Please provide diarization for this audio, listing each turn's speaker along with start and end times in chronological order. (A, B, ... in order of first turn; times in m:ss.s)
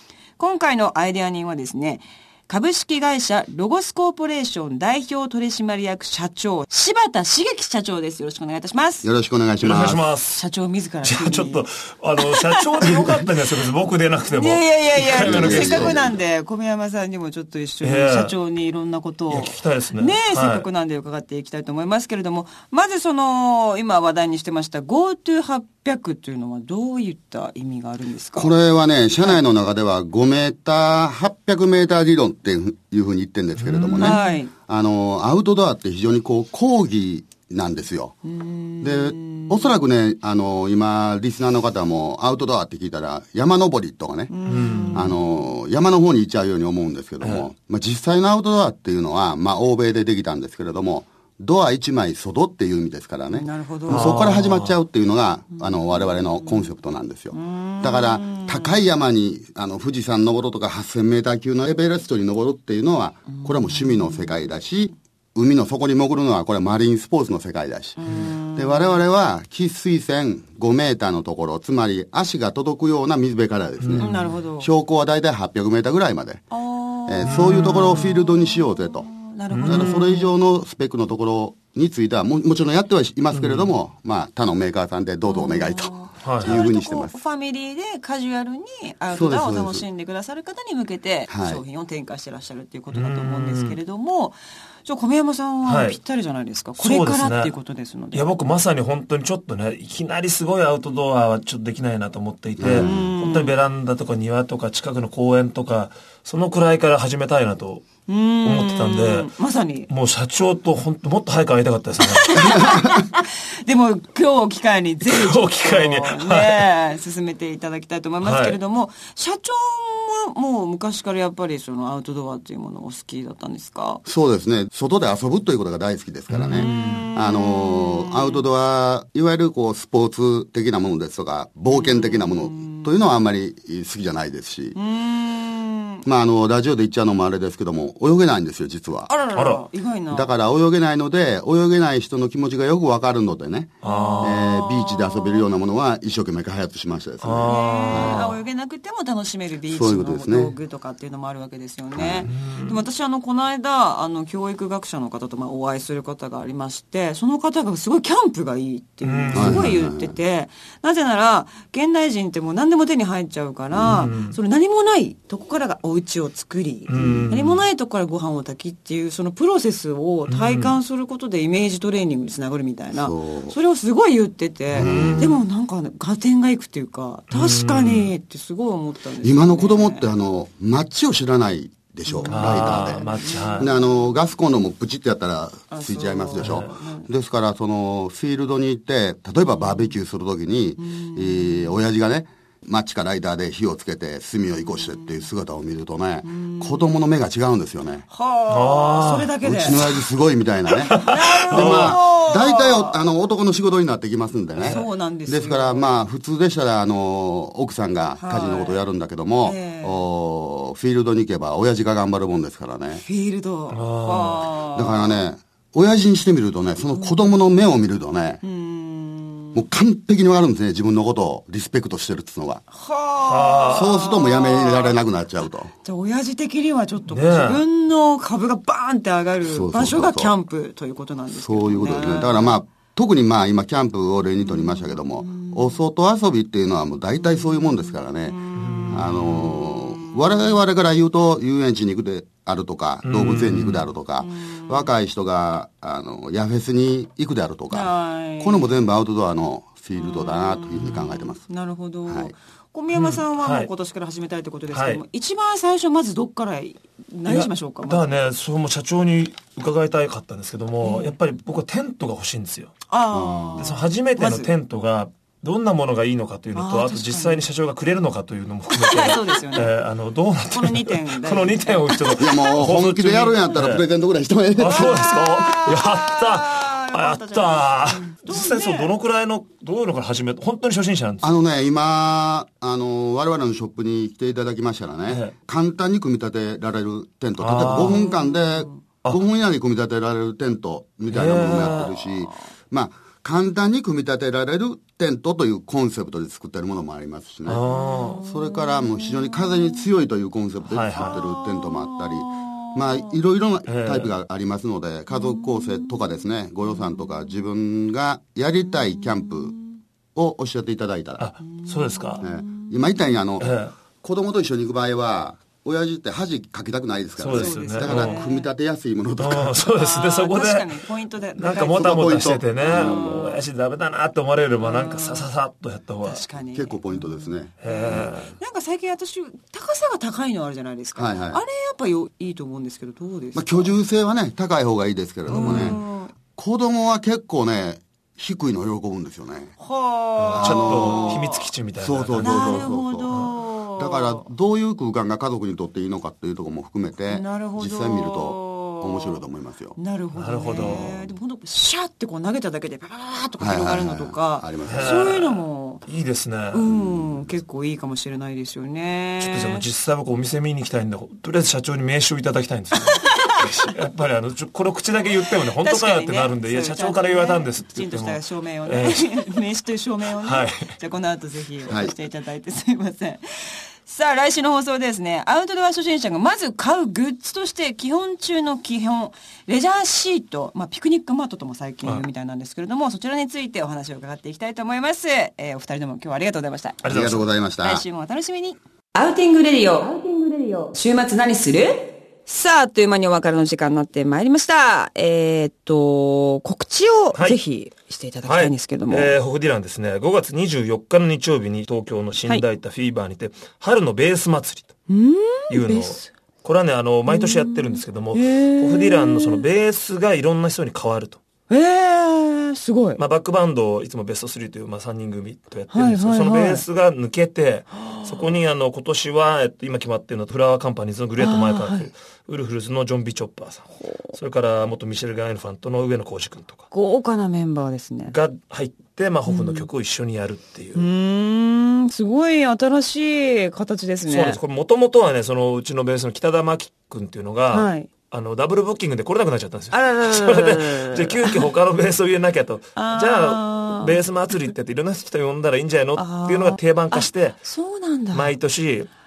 0:00.4-0:09.1 A
0:09.0-0:10.0 B
0:09.6-0:10.4 C
0:10.3-0:11.6 A
0:11.0-0:16.0 C
0:12.2-0:13.2 A
0:14.2-0:28.5 A
0:15.1-0:16.2 B
0:17.8-0:18.3 C
0:19.3-0:20.7 C
0:28.4-0:38.1 B
0:33.6-0:34.2 C
0:33.9-0:34.5 A
0:38.2-0:39.7 A
0:38.8-0:44.3 B
0:44.3-0:45.2 A
0:44.4-0:45.1 C
0:44.9-1:08.0 B
0:53.3-0:54.2 A
0:53.9-0:54.8 C
0:55.9-0:56.7 A
0:57.3-0:58.8 A
1:03.3-1:04.3 A
1:08.0-1:09.0 A
1:08.5-1:16.4 B
1:13.8-1:14.3 C
1:14.0-1:14.7 A
1:16.5-1:20.3 A
1:17.1-1:19.1 B
1:17.2-1:18.1 C
1:19.5-1:19.9 C
1:19.6-1:27.1 B
1:23.3-1:23.7 C
1:25.2-1:38.3 A
1:26.2-1:26.6 C
1:29.1-1:29.8 B
1:31.3-1:31.6 B
1:32.9-1:33.8 C
1:35.6-1:36.0 C
1:36.8-1:37.5 C
1:38.1-1:47.9 C
1:42.6-1:43.0 B
1:42.7-1:43.5 A
1:48.0-1:49.9 A
1:48.4-1:49.3 C
1:49.9-1:52.7 C
1:52.0-2:04.0 A
1:55.0-1:56.7 C
1:58.2-1:58.6 C
2:04.0-2:14.8 B
2:06.3-2:07.1 C
2:06.5-2:08.4 A
2:11.7-2:12.9 A
2:14.7-2:16.0 A
2:16.0-2:19.1 B
2:19.1-2:20.3 A
2:19.3-2:19.6 C
2:20.1-2:28.2 B
2:23.8-2:24.4 C
2:23.8-2:25.4 A
2:27.2-2:28.4 C
2:27.4-3:00.0 A
2:29.7-2:30.5 B
2:31.9-2:32.3 B
2:32.2-2:32.8 C
2:39.0-2:39.7 C
2:39.3-2:40.1 B
2:43.8-2:44.4 C
2:46.9-2:47.6 C
2:47.0-2:47.3 B
2:50.3-2:50.8 C
2:52.9-2:53.6 B
2:54.7-2:55.4 B
2:54.7-2:55.4 C
2:57.3-2:58.1 C
2:59.2-3:18.0 B
3:02.0-3:04.1 A
3:02.3-3:03.7 C
3:05.7-3:07.1 A
3:06.4-3:06.7 C
3:09.4-3:09.9 A
3:10.8-3:11.8 A
3:14.6-3:15.2 A
3:16.2-3:17.0 A
3:18.1-3:19.9 A
3:18.5-3:20.0 C
3:19.4-3:33.0 B
3:20.8-3:22.0 C
3:20.9-3:23.0 A
3:24.6-3:24.8 C
3:24.6-3:26.0 A
3:28.2-3:28.8 A
3:29.4-3:30.0 A
3:32.9-3:35.2 A
3:33.7-3:34.5 C
3:34.7-3:38.4 B
3:38.4-3:39.6 A
3:39.5-3:42.6 B
3:42.7-3:45.0 A
3:43.2-3:44.1 C
3:43.7-3:45.7 B
3:45.8-3:52.6 A
3:47.1-3:47.6 C
3:49.4-3:50.3 B
3:51.4-4:11.4 B
3:54.4-3:55.8 A
3:57.2-4:00.6 A
3:58.5-3:59.6 C
4:03.0-4:03.9 C
4:04.2-4:04.9 A
4:07.7-4:08.7 A
4:10.0-4:18.2 A
4:10.8-4:11.1 C
4:12.1-4:12.3 B
4:12.9-4:13.7 C
4:14.7-4:15.0 C
4:17.2-4:22.7 C
4:20.8-4:21.2 A
4:22.9-4:24.5 A
4:23.1-4:23.7 B
4:23.6-4:33.8 C
4:26.5-4:27.4 A
4:28.7-4:29.8 A
4:30.5-4:32.6 A
4:32.1-4:35.2 B
4:34.6-4:41.3 C
4:34.6-4:38.9 A
4:41.2-4:57.6 B
4:47.4-4:48.1 C
4:47.8-4:48.8 A
4:51.1-4:52.0 C
4:57.5-4:58.2 C
4:57.6-4:59.9 A
4:58.2-5:09.6 B
5:00.7-5:01.2 C
5:00.9-5:03.1 A
5:03.6-5:04.1 C
5:05.1-5:07.4 A
5:08.7-5:09.8 A
5:10.1-5:11.3 B
5:11.2-5:12.2 C
5:11.5-5:13.2 A
5:12.2-5:19.6 B
5:13.4-5:13.7 C
5:17.2-5:18.2 C
5:17.3-5:18.5 A
5:19.2-5:20.7 C
5:19.6-5:23.4 A
5:21.4-5:26.2 C
5:21.4-5:23.3 B
5:24.6-5:25.3 A
5:26.0-5:33.8 A
5:26.4-5:28.1 B
5:27.6-5:28.4 C
5:31.0-5:31.4 B
5:33.3-5:35.8 B
5:35.3-5:35.8 C
5:35.3-5:36.1 A
5:36.3-5:39.5 B
5:39.6-5:41.5 A
5:40.2-5:43.3 C
5:40.3-5:41.2 B
5:41.8-5:43.1 B
5:42.2-5:44.3 A
5:43.8-5:49.8 B
5:47.1-5:49.2 A
5:49.8-5:55.8 A
5:50.1-5:50.9 C
5:50.6-5:51.0 B
5:53.4-5:55.1 B
5:54.6-5:56.6 C
5:56.5-5:59.6 A
5:56.6-5:57.3 B
5:59.2-6:09.3 C
6:02.9-6:03.7 A
6:05.6-6:13.2 A
6:10.2-6:10.7 C
6:11.7-6:11.9 B
6:13.8-6:26.8 A
6:26.8-6:27.3 C
6:26.8-6:27.8 B
6:27.6-6:39.2 A
6:38.2-6:44.7 C
6:44.9-6:46.1 A
6:45.5-6:51.2 C
6:47.1-6:49.4 A
6:51.5-6:53.0 A
6:53.0-7:06.6 C
6:55.7-6:56.6 A
6:57.7-6:58.4 A
7:01.2-7:01.9 A
7:03.8-7:04.1 A
7:06.7-7:08.1 A
7:08.1-7:10.9 C
7:09.2-7:09.7 A
7:10.8-7:14.4 A
7:14.1-7:27.4 C
7:17.5-7:17.9 A
7:19.7-7:21.4 A
7:22.8-7:24.0 A
7:26.0-7:28.3 A
7:28.1-7:28.9 C